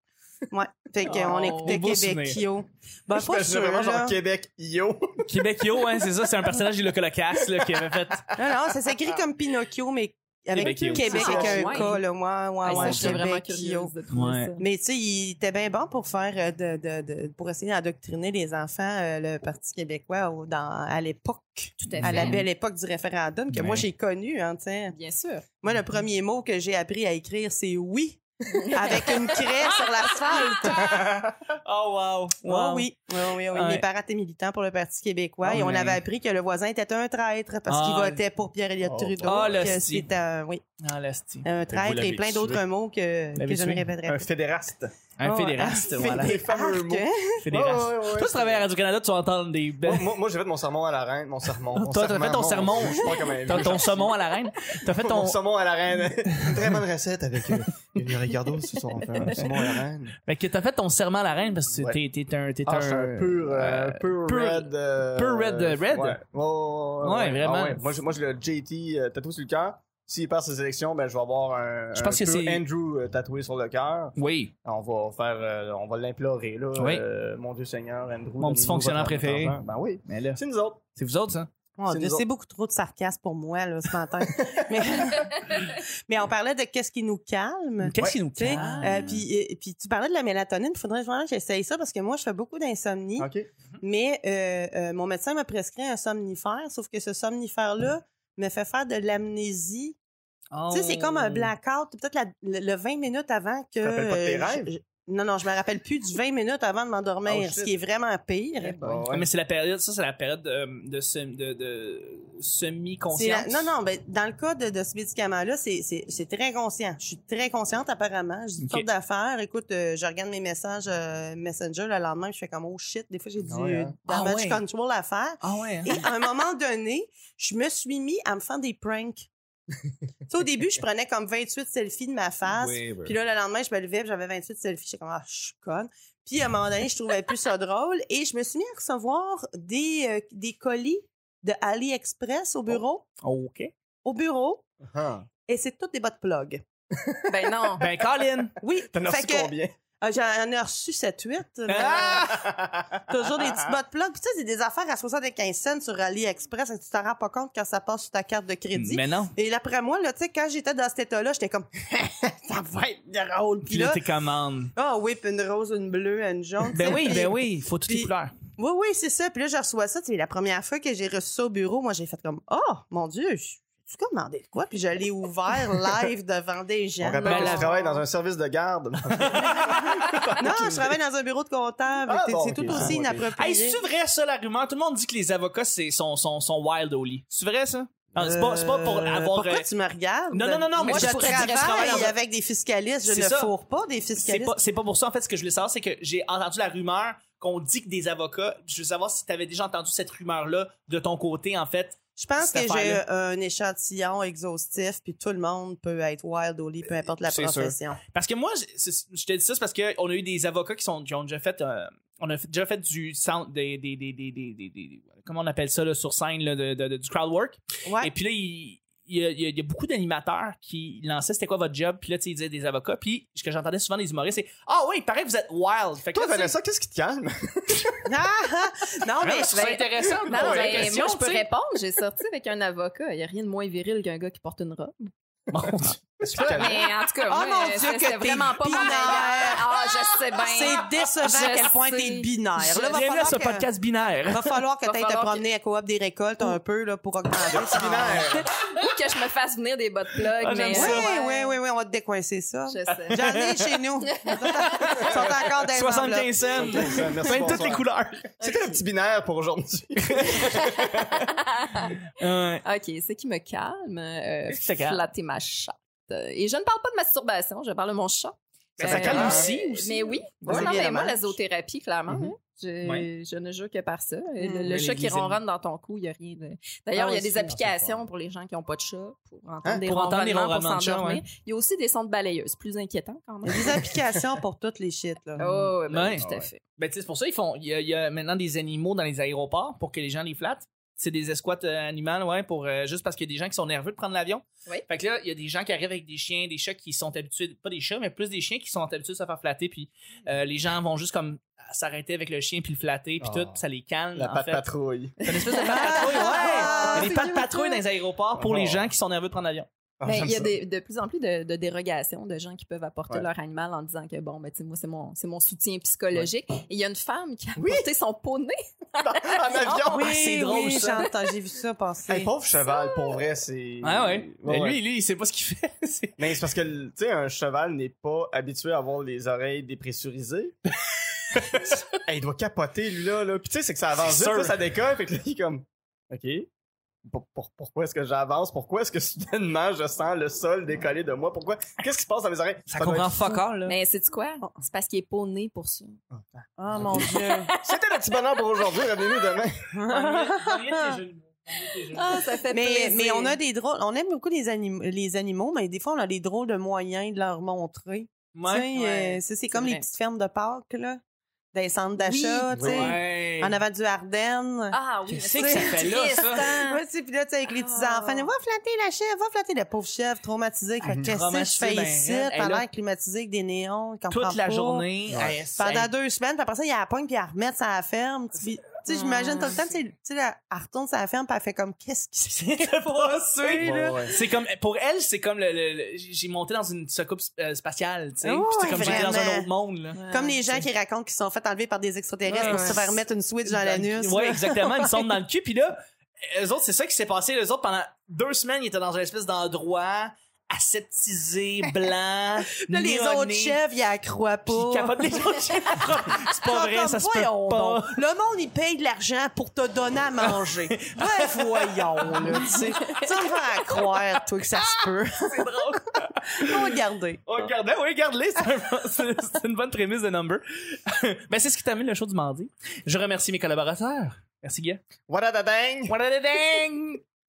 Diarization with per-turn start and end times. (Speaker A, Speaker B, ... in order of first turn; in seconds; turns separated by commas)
Speaker A: 0.5-4.2, Speaker B: 1.0-2.4, Speaker C: 3.1-5.4, Speaker B: 5.3-8.3, Speaker A: 8.4-13.9, Speaker B: 10.6-11.5, Speaker C: 10.6-11.9, Speaker D: 11.0-12.0, Speaker D: 12.6-14.6, Speaker B: 12.7-13.2, Speaker B: 14.1-14.5, Speaker A: 14.6-25.0, Speaker D: 21.8-22.4, Speaker B: 21.9-22.4, Speaker B: 23.5-23.9, Speaker D: 24.9-25.4, Speaker A: 25.6-31.0, Speaker D: 28.5-29.0, Speaker B: 30.1-32.9, Speaker A: 32.4-40.6, Speaker B: 33.5-33.9, Speaker C: 35.4-35.8, Speaker B: 35.5-36.0, Speaker B: 37.7-38.2, Speaker C: 38.8-39.5, Speaker B: 39.2-40.1, Speaker B: 40.8-42.6, Speaker A: 41.5-44.2, Speaker C: 41.9-42.5, Speaker B: 43.4-43.9, Speaker C: 44.1-44.9, Speaker B: 45.2-46.4, Speaker A: 45.2-47.4, Speaker C: 46.1-48.7, Speaker B: 47.4-50.1, Speaker C: 49.9-54.3, Speaker B: 51.7-55.4, Speaker C: 54.9-60.2, Speaker B: 56.3-56.7, Speaker B: 60.3-66.2, Speaker C: 62.7-80.8, Speaker B: 67.0-67.8, Speaker B: 72.0-72.6, Speaker B: 74.2-74.5, Speaker B: 76.8-77.0, Speaker B: 78.4-80.4, Speaker B: 81.0-81.5, Speaker A: 81.8-93.3, Speaker C: 81.9-82.2, Speaker C: 84.4-84.8, Speaker B: 87.8-89.2, Speaker C: 88.0-89.0, Speaker C: 93.2-93.5, Speaker A: 93.8-100.0, Speaker B: 100.5-101.5, Speaker A: 100.7-109.0, Speaker C: 103.8-104.7, Speaker C: 107.2-107.7, Speaker C: 108.6-109.3, Speaker B: 109.1-113.7, Speaker A: 113.1-129.3, Speaker B: 118.6-118.9, Speaker C: 123.4-124.0, Speaker B: 124.1-124.6, Speaker B: 125.4-126.1, Speaker A: 130.3-143.1, Speaker B: 132.5-133.2, Speaker B: 143.2-143.7, Speaker A: 144.0-144.7, Speaker C: 144.8-145.3, Speaker A: 145.5-146.6, Speaker C: 147.0-147.7, Speaker D: 147.3-147.9, Speaker B: 147.8-148.5, Speaker A: 148.6-152.5, Speaker C: 148.9-149.7, Speaker B: 151.7-152.5, Speaker C: 152.2-153.5, Speaker A: 153.1-164.0, Speaker B: 158.7-159.3, Speaker B: 163.7-164.7, Speaker A: 164.8-178.0, Speaker B: 166.7-168.3, Speaker C: 177.0-181.0, Speaker B: 177.2-177.7, Speaker B: 179.2-179.9, Speaker A: 180.4-183.8, Speaker C: 182.1-183.2, Speaker B: 182.7-189.7, Speaker A: 188.2-194.6, Speaker B: 190.3-192.1, Speaker D: 190.9-192.1, Speaker B: 193.1-193.5, Speaker B: 194.2-203.0, Speaker A: 202.2-208.0, Speaker B: 207.3-226.6, Speaker C: 226.1-228.0, Speaker A: 228.1-229.8, Speaker B: 229.2-231.5, Speaker D: 229.5-235.1, Speaker C: 230.3-230.8, Speaker B: 235.5-236.8, Speaker C: 235.5-236.8, Speaker D: 236.3-242.3, Speaker A: 237.3-243.7, Speaker B: 242.6-244.6, Speaker A: 244.3-248.3, Speaker D: 244.8-245.4, Speaker C: 247.5-248.5, Speaker D: 248.7-251.6, Speaker B: 250.4-251.1, Speaker A: 250.7-257.0, Speaker D: 252.7-253.3, Speaker B: 253.1-253.8, Speaker D: 254.1-255.1, Speaker B: 254.8-258.3, Speaker C: 256.6-261.2, Speaker B: 260.0-260.8, Speaker D: 260.5-262.0, Speaker B: 262.2-262.6, Speaker D: 262.6-283.9, Speaker B: 264.5-265.0, Speaker B: 268.8-270.1, Speaker C: 268.8-269.5, Speaker A: 269.2-269.4, Speaker A: 270.4-271.4, Speaker C: 270.5-270.8, Speaker B: 274.7-275.4, Speaker C: 277.0-278.1, Speaker B: 279.7-281.2, Speaker A: 283.4-285.4, Speaker D: 285.4-286.6, Speaker B: 285.4-304.7, Speaker C: 286.2-286.5, Speaker C: 303.2-303.6, Speaker C: 304.1-305.7, Speaker B: 305.2-309.7, Speaker D: 305.5-307.7, Speaker A: 305.6-307.6, Speaker C: 308.4-308.9, Speaker C: 310.0-310.6, Speaker D: 310.1-319.9, Speaker C: 317.6-317.9, Speaker C: 319.0-320.2, Speaker A: 319.9-322.3, Speaker B: 319.9-321.1, Speaker C: 322.1-324.8, Speaker D: 322.6-323.1, Speaker B: 323.8-326.3, Speaker C: 326.2-330.5, Speaker B: 331.4-331.8, Speaker C: 331.5-336.5, Speaker B: 334.0-334.6, Speaker C: 337.1-343.4, Speaker B: 342.7-343.8, Speaker D: 343.7-346.0, Speaker C: 346.1-347.1, Speaker A: 346.6-347.5, Speaker D: 346.9-347.8, Speaker C: 347.6-349.6, Speaker D: 348.7-349.1, Speaker A: 349.7-351.0, Speaker B: 349.9-352.2, Speaker D: 351.9-353.4, Speaker A: 352.5-361.0, Speaker B: 358.3-359.2, Speaker D: 359.5-359.9, Speaker A: 361.5-364.8, Speaker D: 362.0-362.8, Speaker C: 362.6-362.9, Speaker B: 362.6-363.6, Speaker D: 364.7-366.8, Speaker B: 365.1-366.5, Speaker A: 365.4-384.0, Speaker D: 367.5-368.3, Speaker B: 370.9-372.6, Speaker C: 370.9-371.1, Speaker B: 374.1-375.9, Speaker C: 375.1-375.4, Speaker D: 378.9-379.6, Speaker B: 382.4-390.0, Speaker C: 383.6-384.2, Speaker A: 388.2-389.5, Speaker D: 388.8-389.1, Speaker C: 388.8-389.1, Speaker D: 389.9-390.4, Speaker A: 390.1-395.1, Speaker B: 392.3-403.6, Speaker D: 392.4-392.8, Speaker A: 402.6-405.8, Speaker B: 404.5-408.0, Speaker A: 406.4-417.2, Speaker B: 410.2-424.8, Speaker C: 425.1-425.9, Speaker B: 425.9-427.0